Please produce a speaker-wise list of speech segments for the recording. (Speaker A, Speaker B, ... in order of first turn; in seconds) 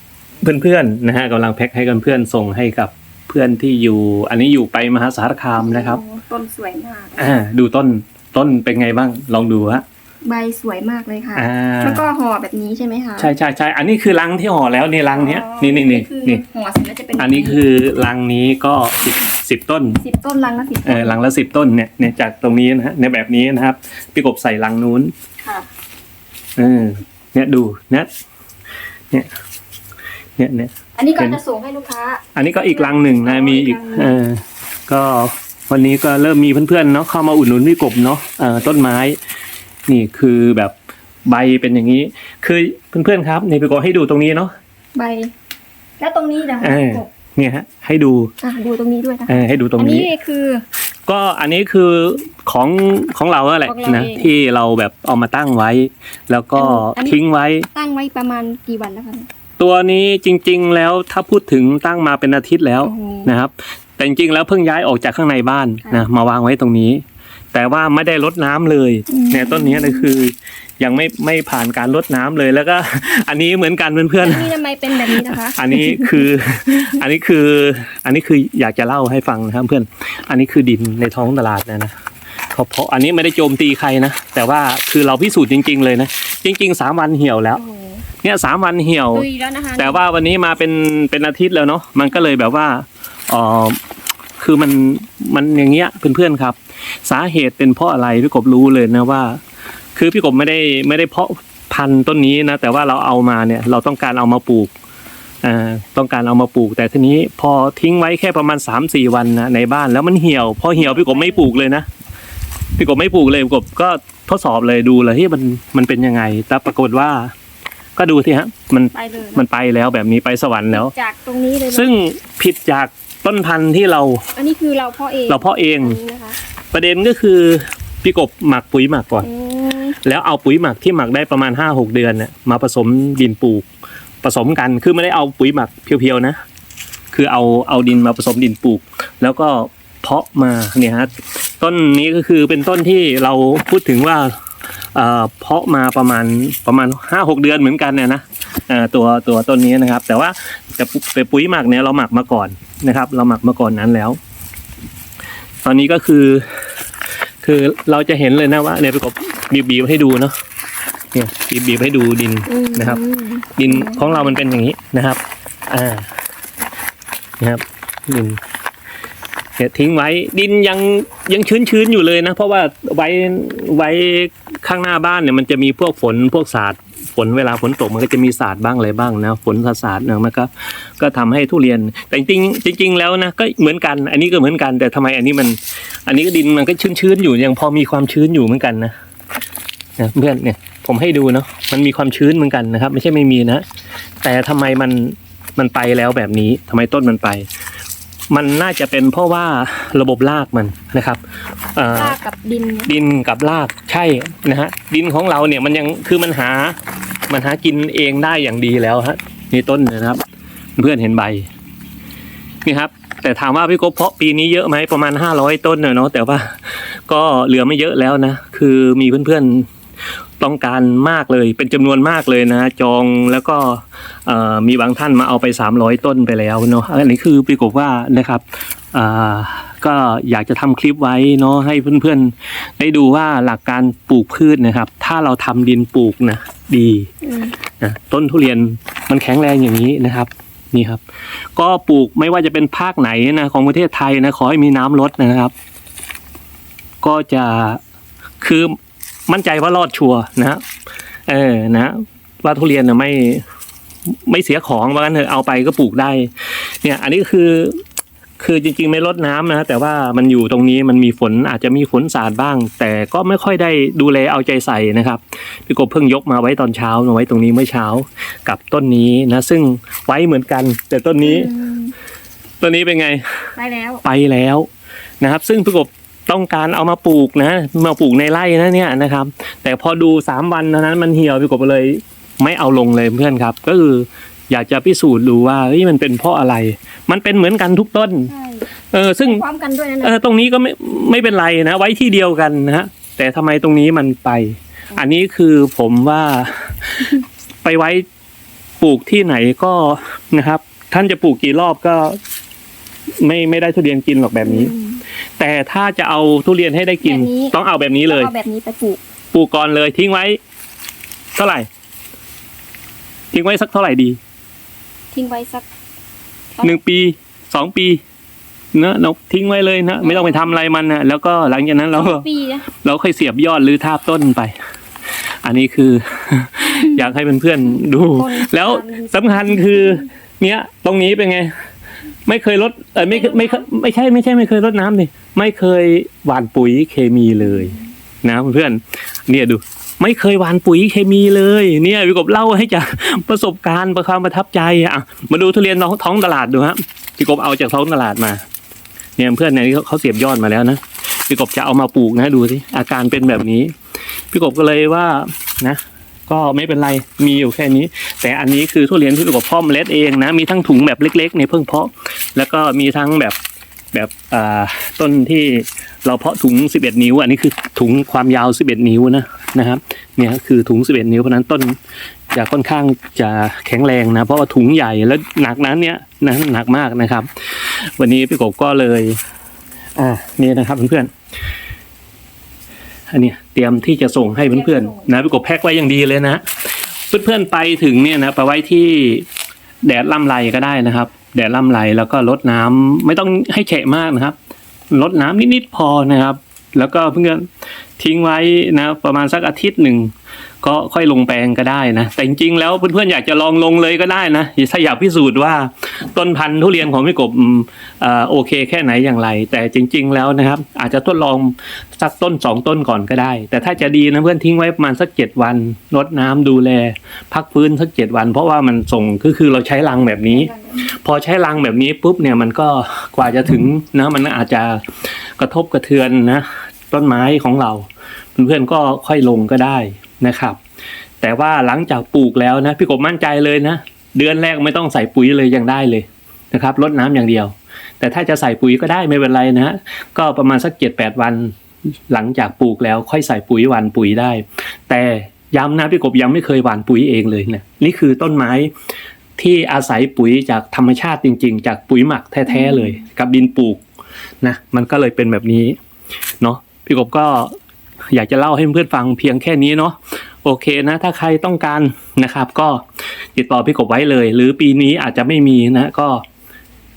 Speaker A: 0.4-6.0, 7.2-9.8, 11.3-12.1, 13.2-16.4, 17.2-20.0, 20.9-25.1, 26.6-28.1, 30.4-31.4, 32.4-39.2, 39.9-40.8, 41.3-44.5, 46.6-48.3, 49.3-50.1, 51.1-57.7, 59.6-74.5, 75.1-81.9, 82.5-87.6, 88.2-89.3, 89.8-93.8, 94.4-99.4, 100.0-104.7, 105.4-111.9, 112.8-117.3, 118.0-120.9, 121.7-124.2, 125.3-126.0, 126.7-129.3, 130.0-133.7, 134.2-136.4, 137.1-144.3, 144.9-154.2, 155.6-156.5, 157.4-160.3, 161.1-163.0, 163.6-166.1, 167.4-168.4, 169.6-188.9, 190.0-193.6, 194.2-197.5, 198.3-201.2, 201.8-202.2, 202.9-206.8, 207.3-210.2, 210.8-211.5, 212.7-219.7, 220.4-237.1, 237.8-241.0, 241.6-245.5, 247.0-247.8, 248.4-248.7, 249.3-250.6, 251.3-253.4, 254.1-257.8, 258.4-271.5, 272.6-273.2, 274.0-274.7, 275.2-288.3, 288.9-289.4, 290.0-298.1, 298.8-302.2, 303.2-304.7, 305.4-308.3, 309.3-310.4, 311.4-311.7, 313.3-314.2, 316.6-318.0, 318.7-324.5, 325.4-331.5, 332.3-348.4, 349.2-353.7, 354.3-363.4, 363.9-371.8, 372.3-379.2, 380.0-381.1, 383.1-386.4, 387.1-389.3, 389.8-394.4, 394.9-397.5, 398.0-430.6, 431.2-441.5, 442.1-448.7, 449.4-453.8, 454.4-455.8, 456.4-457.5, 458.1-462.8, 463.4-466.2
Speaker B: 5.6-7.4, 10.2-13.3, 15.2-17.6, 20.0-21.2, 31.0-34.1, 45.0-45.3, 46.0-47.1, 48.4-50.6, 53.6-54.3, 56.6-57.2, 57.7-59.3, 62.8-63.3, 69.1-70.1, 74.2-76.3, 87.6-88.0, 89.1-90.0, 110.8-111.5, 118.9-119.4, 120.7-121.9, 124.3-126.4, 129.2-130.0, 162.5-164.4, 201.9-202.9, 237.2-237.6, 271.2-271.9, 273.6-274.0, 288.3-288.7, 289.2-290.2, 304.4-305.0, 307.0-307.6, 308.1-309.0, 315.1-315.7, 320.0-320.5, 321.9-322.7, 328.1-330.1, 333.1-333.7, 384.4-385.1, 420.3-420.8